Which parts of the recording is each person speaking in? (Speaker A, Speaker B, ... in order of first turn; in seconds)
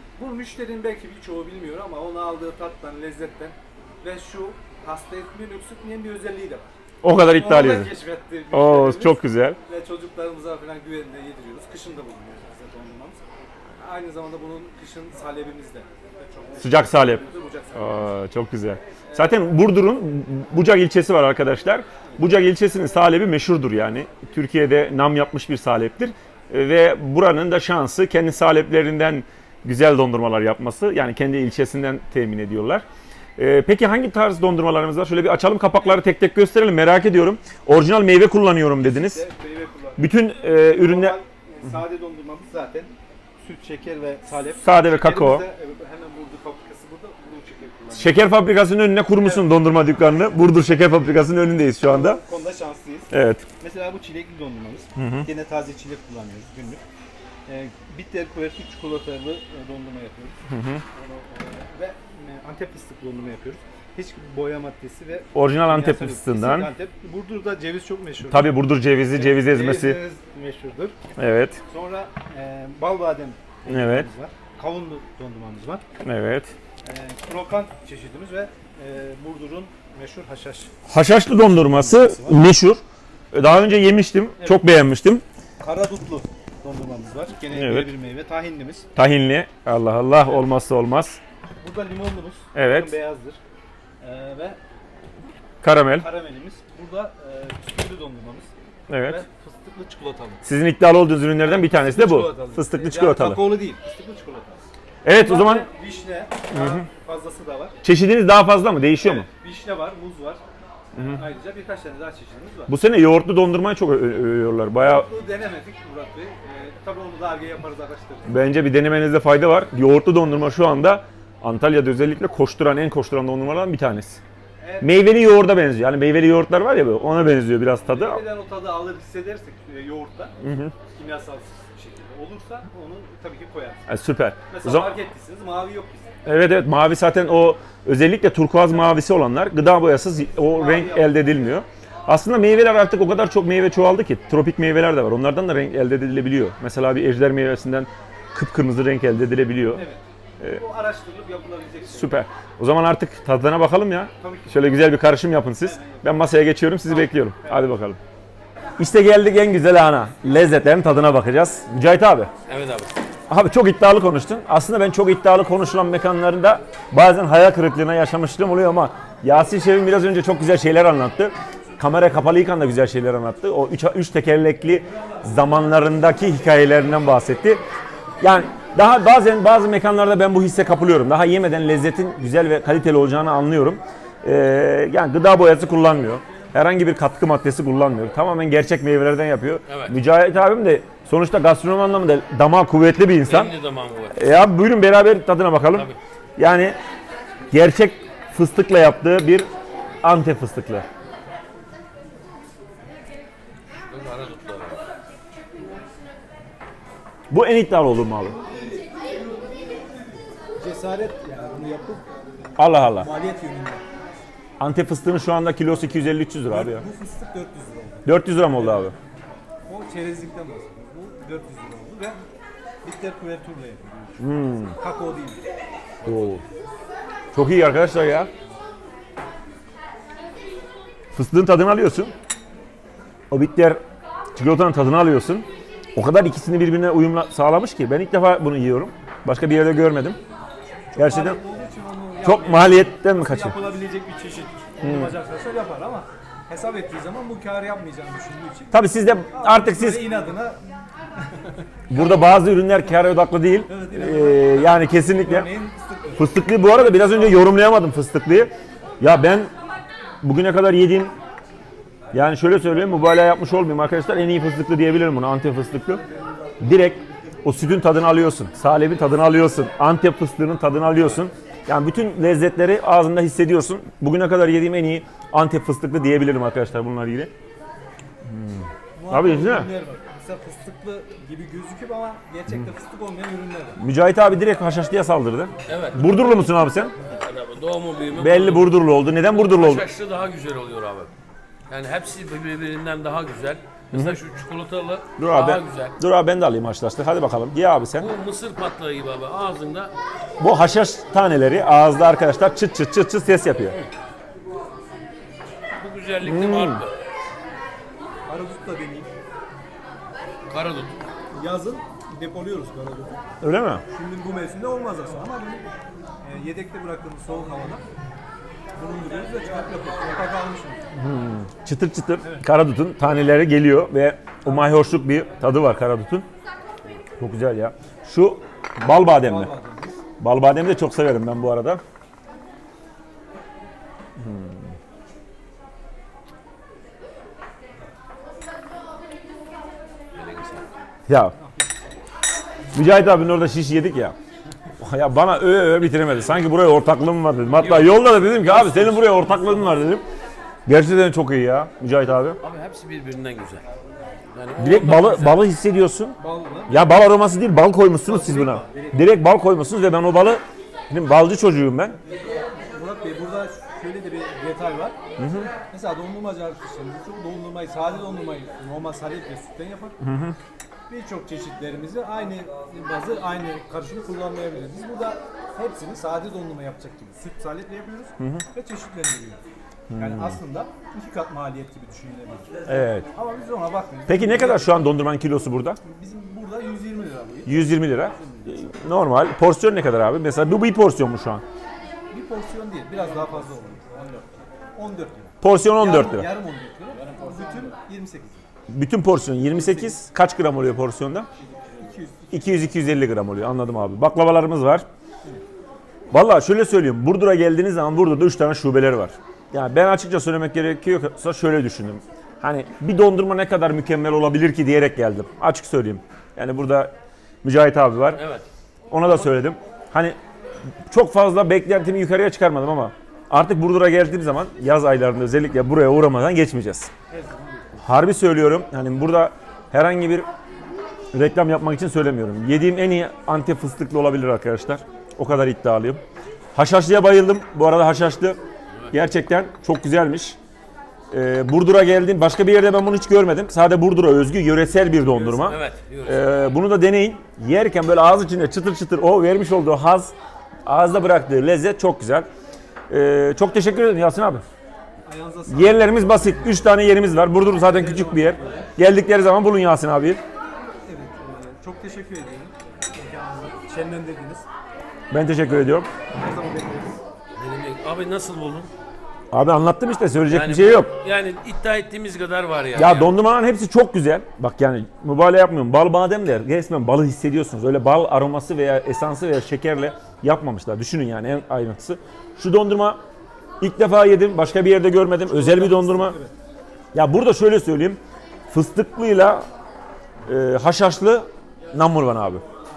Speaker A: 0.2-13.2, 13.8-18.1, 19.1-19.5, 38.8-40.1, 40.7-48.2, 49.2-49.6, 51.8-56.8, 57.5-60.4, 60.9-68.5, 69.1-71.0, 71.7-75.8, 76.8-80.7, 81.6-82.5, 84.4-84.7, 85.6-88.9, 91.6-93.4, 94.0-94.6, 96.0-98.5, 99.0-100.4, 101.4-104.6, 105.1-107.8, 109.0-110.4, 110.9-112.7, 114.8-118.4, 124.6-125.0, 127.8-130.4, 130.9-133.9, 134.5-136.2, 140.5-141.6, 149.7-152.2, 154.2-154.8, 155.6-156.2, 156.9-157.7, 210.6-212.1, 212.9-213.8, 216.5-218.9, 219.7-222.2, 222.8-225.4, 240.9-250.6, 251.3-252.4, 253.7-257.5, 279.0-283.8, 308.3-309.1, 311.3-313.2, 313.9-315.7, 316.2-317.8, 318.8-320.8, 329.1-330.0, 341.4-341.7, 349.1-349.8, 356.2-356.8, 358.0-359.2, 362.7-365.0, 365.7-370.0, 370.9-379.4, 380.0-382.5, 383.1-384.9, 385.8-388.7, 392.1-394.1, 394.8-398.5, 399.4-400.0, 401.7-402.7, 427.1-427.8, 445.1-445.4, 455.1-456.7, 457.6-458.7, 460.9-464.5, 466.1-467.0, 485.2-486.3
Speaker B: 7.0-7.9, 8.5-9.6, 16.6-17.2, 17.7-32.8, 33.4-39.2, 40.0-41.2, 44.6-45.5, 48.0-52.2, 53.1-53.5, 55.0-55.3, 60.5-60.8, 65.3-66.7, 68.3-70.0, 71.2-71.6, 73.7-74.1, 76.0-76.5, 80.9-82.8, 83.3-85.2, 87.5-87.9, 89.0-91.2, 92.5-92.9, 95.6-96.1, 98.9-99.2, 100.5-103.5, 105.0-105.7, 106.5-106.8, 107.8-109.3, 110.9-111.2, 112.7-115.0, 118.3-124.2, 124.8-128.2, 130.4-130.8, 133.9-134.9, 136.2-149.8, 151.9-158.0, 158.8-162.3, 163.3-177.6, 178.2-193.5, 194.1-196.8, 197.5-199.5, 200.0-200.8, 207.3-208.4, 212.6-213.1, 214.6-216.8, 218.1-218.9, 224.2-224.8, 226.0-226.4, 227.3-228.3, 231.1-232.1, 233.3-233.8, 234.4-240.2, 241.0-241.4, 242.2-243.6, 244.8-245.1, 248.7-250.0, 251.9-255.5, 256.2-259.5, 260.2-261.1, 262.1-266.0, 266.6-277.3, 278.3-279.7, 283.8-286.9, 288.1-289.9, 293.9-294.2, 295.2-298.1, 300.4-303.8, 306.2-306.8, 313.4-313.8, 320.9-326.3, 327.2-329.5, 330.2-331.8, 334.2-334.6, 341.1-341.4, 342.7-344.1, 344.8-350.0, 350.7-352.4, 354.6-356.2, 356.7-362.0, 365.2-365.5, 370.0-370.4, 379.9-380.4, 382.7-383.1, 384.1-385.8, 387.5-391.4, 395.4-396.3, 398.7-401.3, 402.3-404.9, 406.1-418.2, 418.9-420.2, 420.9-426.9, 427.8-430.3, 431.1-436.0, 436.6-438.4, 438.9-440.4, 441.1-450.1, 450.7-452.3, 452.9-454.4, 455.5-460.2, 465.1-465.9, 469.3-470.9, 472.7-483.0, 483.6-486.2, 486.9-489.4, 490.3-492.4
Speaker C: 162.5-163.0, 189.7-189.9, 193.2-194.2, 195.7-196.0, 203.8-204.8, 285.7-291.1, 291.7-296.0, 298.0-299.9, 305.8-306.9, 310.5-311.0, 340.1-340.7, 347.6-349.1, 352.4-353.6, 354.3-355.5, 418.1-418.5, 445.4-446.3, 467.4-468.7, 470.3-473.2